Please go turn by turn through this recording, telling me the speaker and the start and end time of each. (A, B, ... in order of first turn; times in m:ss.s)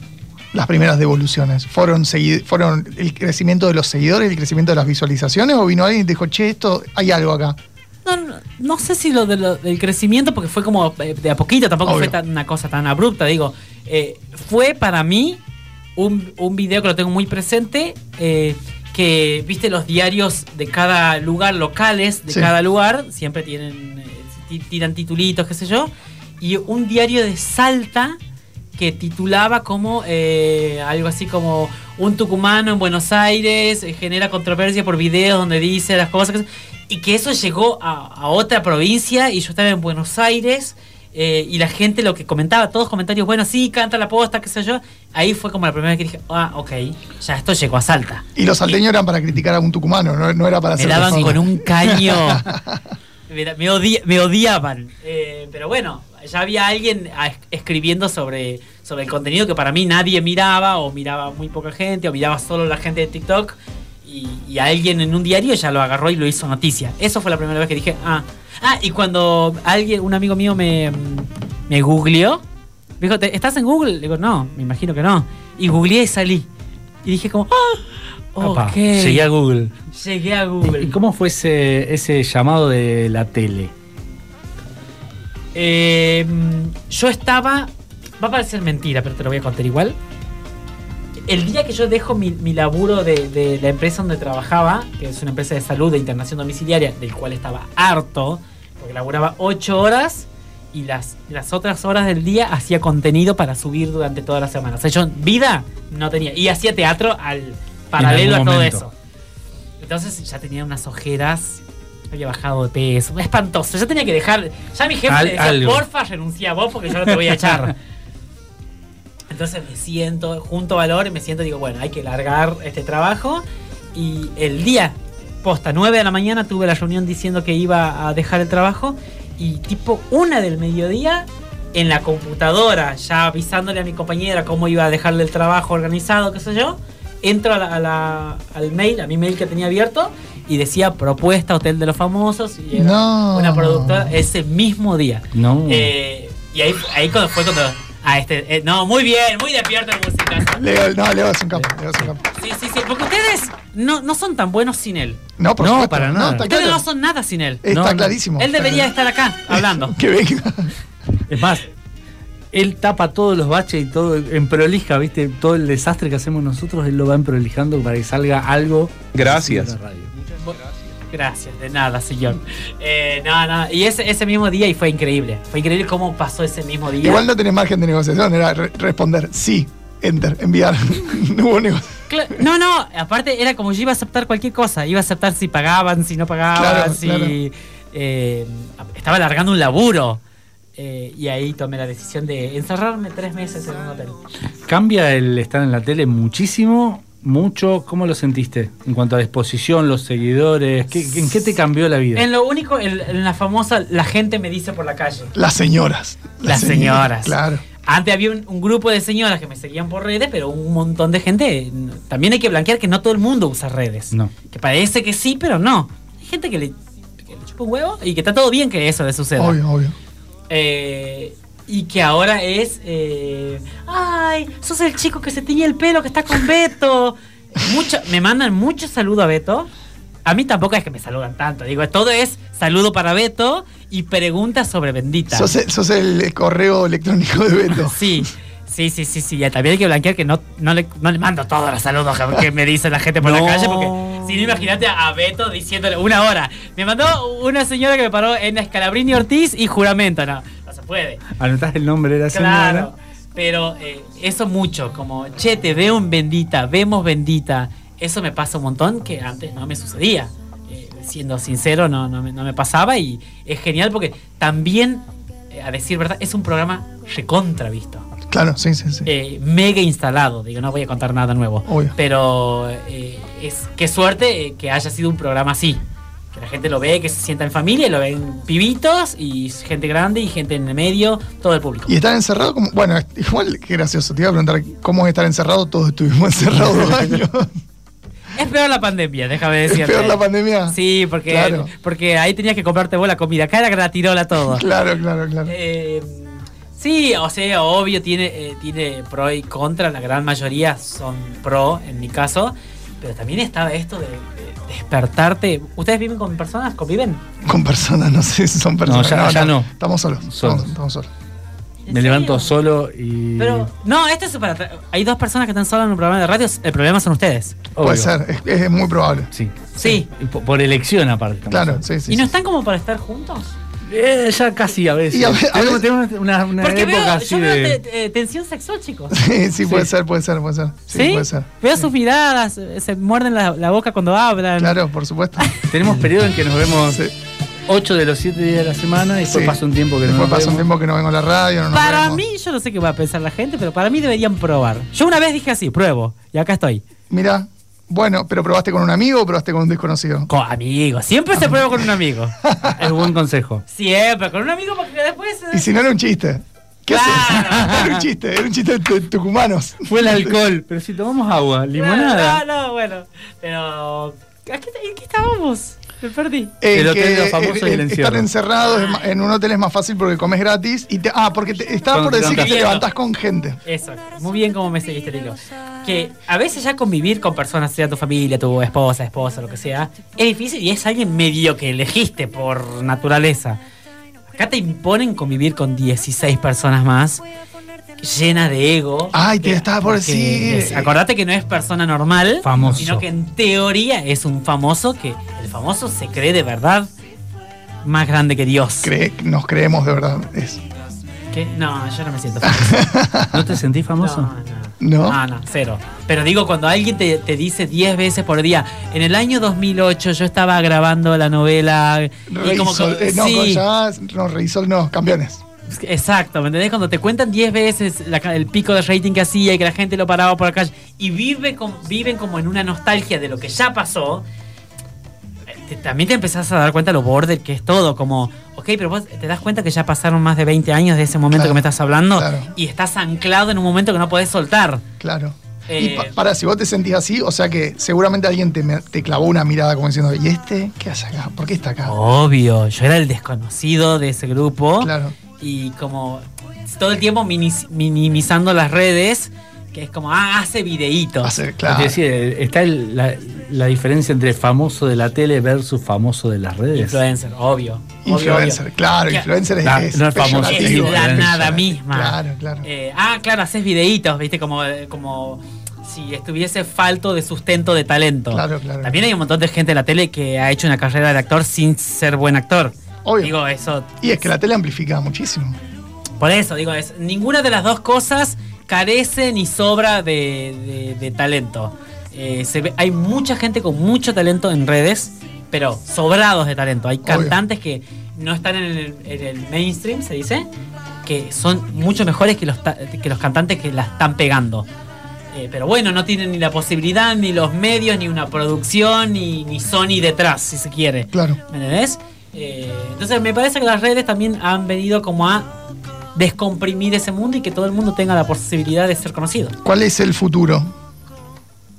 0:00.5-0:07.6 A
0:08.0-0:15.4 B
0:11.8-0:12.2 A
0:16.0-0:28.2 B
0:28.8-0:48.7 B
0:48.4-0:52.8 A
0:50.8-0:52.5 B
0:53.3-1:12.4 B
1:13.0-1:16.5 B
1:17.0-1:19.3 B
1:18.4-1:19.8 C
1:19.9-1:20.9 B
1:20.7-1:23.7 C
1:25.6-1:30.0 B
1:31.3-1:48.9 B
1:48.0-1:48.8 C
1:49.8-1:57.8 B
1:55.1-1:55.8 C
1:59.3-2:30.7 B
2:22.7-2:24.1 A
2:25.3-2:25.9 C
2:30.6-2:32.2 A
2:32.3-2:35.2 B
2:35.4-2:36.8 A
2:35.6-2:36.5 C
2:36.4-2:37.6 B
2:37.6-2:38.9 A
2:37.7-2:38.2 C
2:38.4-2:40.0 B
2:39.5-2:40.7 A
2:41.3-2:41.7 C
2:42.5-2:50.1 C
2:51.1-2:57.3 B
2:57.0-3:02.0 A
3:02.1-3:10.2 B
3:06.5-3:07.4 A
3:10.8-3:14.2 B
3:14.7-3:22.3 C
3:22.2-3:25.3 B
3:25.4-3:27.6 A
3:26.4-3:39.6 B
3:39.4-3:40.0 A
3:40.5-3:49.7 B
3:50.2-3:55.5 B
3:55.3-3:58.2 A
3:57.9-4:11.2 B
4:03.2-4:04.7 C
4:11.4-4:12.9 C
4:12.3-4:28.1 B
4:28.3-4:29.1 A
4:29.1-4:35.8 B
4:31.7-4:31.9 A
4:36.3-4:42.0 B
4:41.9-4:47.5 A
4:48.3-4:54.7 B
4:49.6-4:51.7 A
4:54.4-4:55.5 A
4:55.5-5:07.2 B
5:07.4-5:11.1 A
5:08.9-5:09.7 C
5:10.3-5:10.7 C
5:11.9-5:12.5 B
5:11.9-5:13.7 C
5:13.4-5:17.6 B
5:17.7-5:18.1 C
5:17.8-5:19.3 A
5:19.3-5:21.8 C
5:19.8-5:20.1 B
5:21.5-5:22.3 A
5:22.1-5:23.5 B
5:23.9-5:27.8 C
5:25.1-5:25.9 A
5:26.6-5:29.2 B
5:29.1-5:31.5 A
5:30.9-5:34.8 B
5:34.6-5:35.9 A
5:35.7-5:37.0 C
5:37.7-5:40.7 C
5:39.3-5:42.2 A
5:41.7-5:46.8 B
5:47.1-5:50.3 A
5:50.3-5:52.4 B
5:52.4-5:52.8 A
5:52.7-5:53.6 C
5:53.7-5:55.7 B
5:55.5-6:00.4 A
5:56.9-5:58.0 B
5:59.8-6:02.4 C
6:01.8-6:06.5 B
6:06.6-6:13.6 A
6:06.7-6:08.3 C
6:08.6-6:09.1 B
6:11.9-6:12.6 C
6:12.2-6:12.9 B
6:13.6-6:23.6 B
6:24.3-6:27.2 B
6:28.0-6:36.9 B
6:29.1-6:30.9 A
6:32.4-6:33.0 C
6:37.8-6:38.9 B
6:38.8-6:40.6 A
6:41.3-6:42.8 B
6:42.4-6:43.6 A
6:43.3-6:44.3 C
6:44.0-6:53.6 B
6:44.8-6:45.2 A
6:52.3-6:55.4 A
6:55.7-7:04.2 B
7:05.5-7:14.8 B
7:11.3-7:11.6 A
7:12.1-7:12.5 A
7:15.0-7:22.0 A
7:15.7-7:16.1 B
7:21.8-7:31.4 B
7:24.8-7:25.2 A
7:31.2-7:32.0 A
7:31.7-7:37.0 C
7:36.7-7:39.3 B
7:38.0-7:42.7 A
7:39.6-7:41.6 C
7:40.2-7:54.1 B
7:48.3-7:49.0 A
7:53.0-7:53.3 A
7:54.0-7:55.6 A
7:56.2-8:10.5 B
8:07.0-8:07.4 A
8:11.0-8:14.7 B
8:15.3-8:25.5 B
8:21.1-8:21.4 A
8:26.2-8:29.6 B
8:29.6-8:30.7 A